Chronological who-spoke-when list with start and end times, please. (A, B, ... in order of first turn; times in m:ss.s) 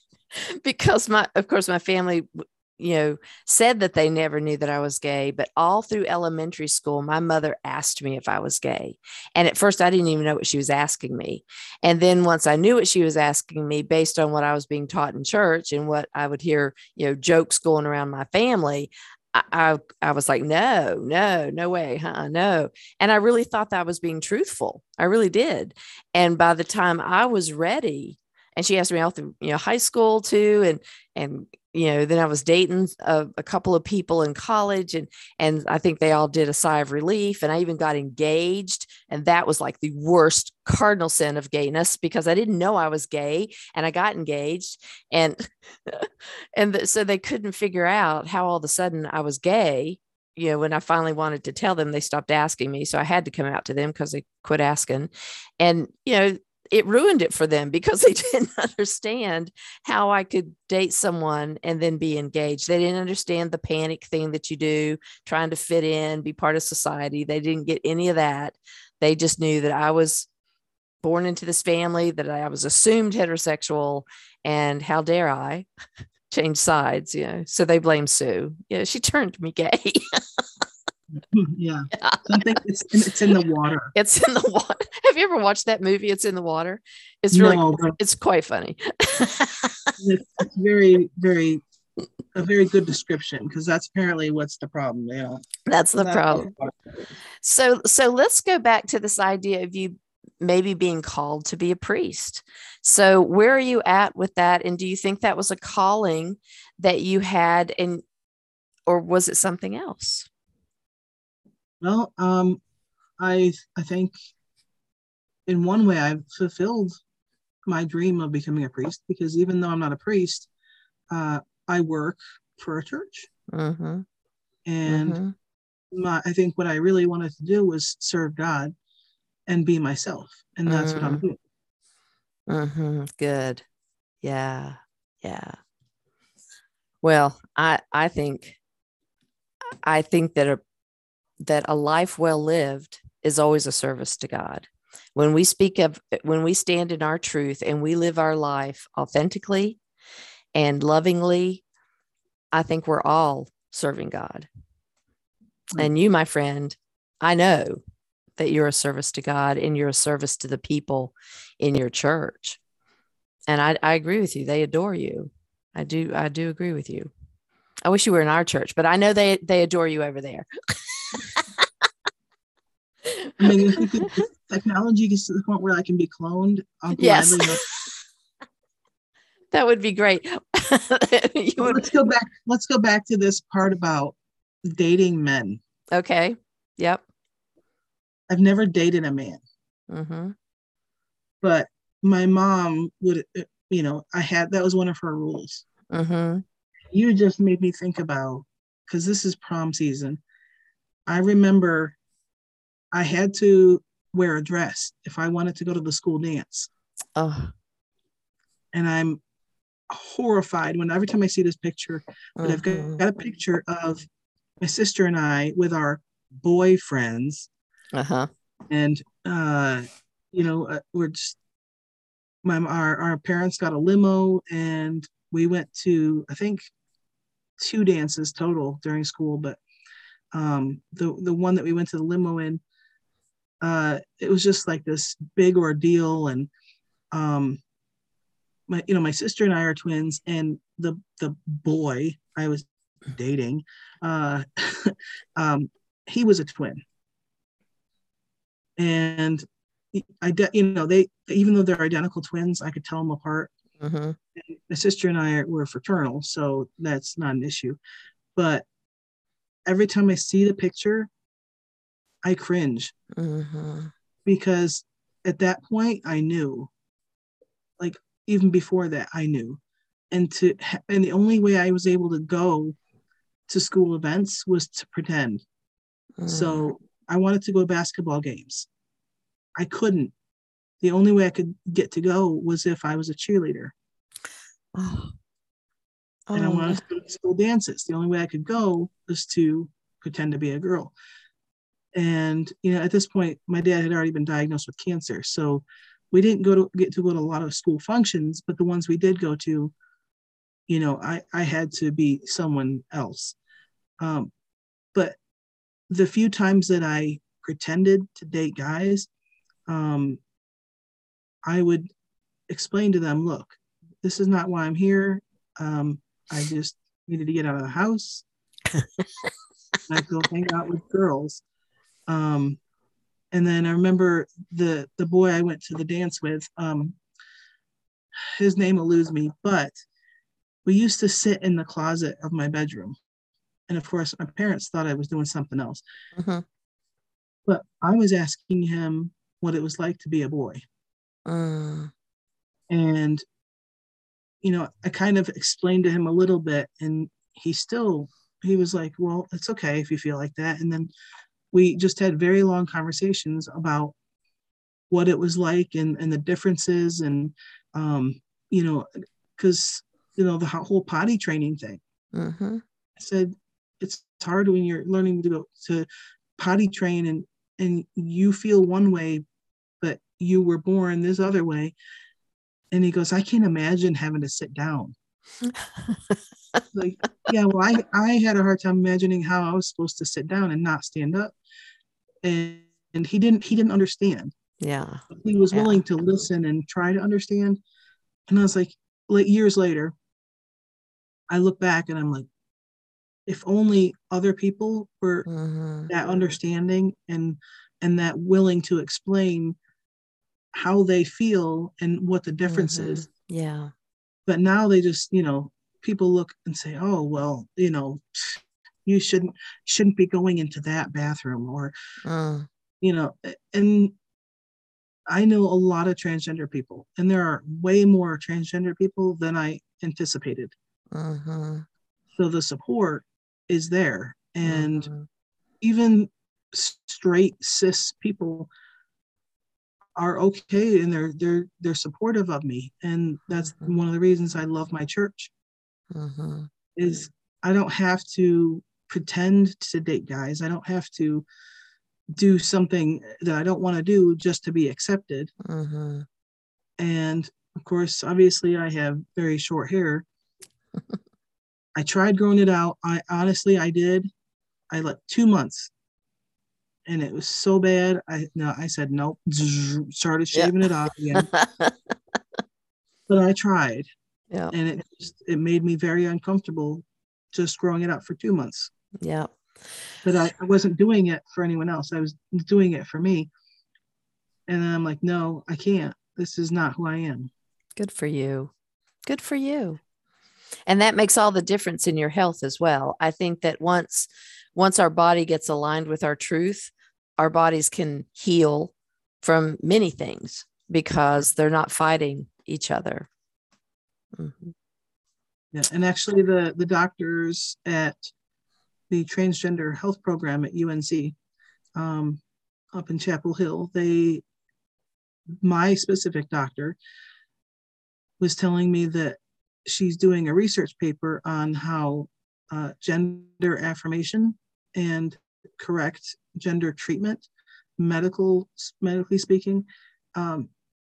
0:00.4-1:10.3 A
1:11.0-1:15.7 A
1:16.3-1:20.4 A
1:21.2-1:23.9 B
1:22.0-1:22.6 A
1:23.9-1:29.9 A
1:27.3-1:28.0 B
1:30.0-1:31.6 B
1:32.3-1:35.5 B
1:35.7-1:36.5 A
1:36.0-1:37.0 B
1:37.4-1:48.0 A
1:48.9-1:50.3 A
1:51.8-1:52.6 B
1:53.2-1:54.2 B
1:55.5-1:56.9 B
1:57.7-2:00.5 B
2:01.1-2:03.3 B
2:03.5-2:04.0 A
2:04.7-2:05.2 B
2:04.9-2:05.3 A
2:05.9-2:08.7 B
2:09.5-2:11.4 B
2:10.7-2:11.2 A
2:12.5-2:13.6 A
2:14.2-2:15.6 A
2:17.0-2:18.6 A
2:19.8-2:20.6 A
2:21.4-2:29.8 A
2:30.6-2:31.6 A
2:32.5-2:34.5 A
2:35.8-2:37.8 A
2:38.4-2:42.6 A
2:43.5-2:47.1 A
2:47.8-2:51.6 A
2:53.0-2:54.2 A
2:53.4-2:57.6 B
2:56.9-2:57.9 A
2:59.5-3:01.9 A
3:01.6-3:05.6 B
3:05.9-3:07.0 A
3:08.3-3:09.4 B
3:09.9-3:10.4 A
3:11.4-3:15.6 B
3:15.9-3:16.4 A
3:16.9-3:20.2 B
3:21.1-3:22.0 B
3:22.9-3:26.7 B
3:27.2-3:27.5 A
3:28.7-3:29.2 B
3:29.9-3:34.1 B
3:32.4-3:33.0 A
3:34.6-3:37.5 B
3:37.9-3:38.3 A
3:38.7-3:41.4 B
3:42.4-3:46.6 B
3:47.6-3:49.6 B
3:50.3-3:52.6 B
3:53.6-3:56.5 B
3:57.1-3:57.6 B
3:58.7-4:06.8 B
4:08.8-4:13.5 B
4:13.8-4:14.2 A
4:14.4-4:17.8 B
4:18.4-4:18.7 B
4:19.7-4:21.1 B
4:22.2-4:22.9 B
4:23.1-4:23.9 A
4:24.3-4:26.7 B
4:27.8-4:29.6 B
4:30.1-4:32.8 B
4:33.5-4:35.4 B
4:36.2-4:36.7 A
4:36.3-4:38.7 B
4:39.6-4:40.1 B
4:40.8-4:43.7 B
4:44.8-4:45.2 A
4:46.3-4:46.8 A
4:46.4-4:50.9 B
4:51.9-4:59.7 B
5:00.7-5:03.4 B
5:04.0-5:04.3 B
5:05.9-5:09.1 B
5:09.7-5:10.2 B
5:11.5-5:11.9 B
5:12.5-5:18.2 B
5:18.8-5:19.3 A
5:19.9-5:21.4 B
5:22.1-5:22.6 B
5:23.3-5:27.0 B
5:28.4-5:29.8 B
5:30.6-5:33.0 B
5:33.7-5:35.8 B
5:36.2-5:36.4 A
5:37.5-5:40.6 B
5:41.3-5:41.9 A
5:42.7-5:43.2 B
5:44.4-5:50.9 B
5:51.5-5:53.9 B
5:54.9-6:01.8 B
6:02.1-6:02.6 A
6:03.0-6:09.2 B
6:09.8-6:11.8 B
6:12.7-6:14.9 B
6:15.5-6:16.6 A
6:16.7-6:21.4 B
6:22.2-6:24.3 B
6:24.6-6:25.8 A
6:25.1-6:27.6 B
6:28.3-6:29.9 B
6:31.3-6:32.3 B
6:33.3-6:35.3 B
6:35.3-6:35.9 A
6:35.9-6:39.6 B
6:40.5-6:43.1 B
6:42.5-6:43.7 A
6:44.3-6:51.7 B
6:52.0-6:52.5 A
6:52.8-6:53.9 B
6:55.1-7:00.5 B
7:00.9-7:01.6 A
7:02.2-7:04.9 B
7:04.4-7:05.1 A
7:05.6-7:08.5 B
7:10.0-7:15.3 B
7:15.9-7:16.5 A
7:16.8-7:21.3 B
7:22.1-7:25.3 B
7:25.4-7:26.1 A
7:26.8-7:30.0 B
7:31.8-7:34.1 B
7:34.7-7:35.7 B
7:36.9-7:41.3 B
7:41.1-7:41.8 A
7:43.1-7:43.9 B
7:44.5-7:48.7 B
7:49.0-7:49.4 A
7:50.0-7:53.3 B
7:54.5-7:57.3 B
7:57.8-7:58.5 A
7:59.1-7:59.8 A
8:00.7-8:13.1 A
8:14.2-8:14.5 A
8:15.5-8:18.0 B
8:18.9-8:21.2 B
8:21.8-8:22.2 B
8:22.7-8:24.2 B
8:25.4-8:26.8 B
8:28.2-8:40.5 B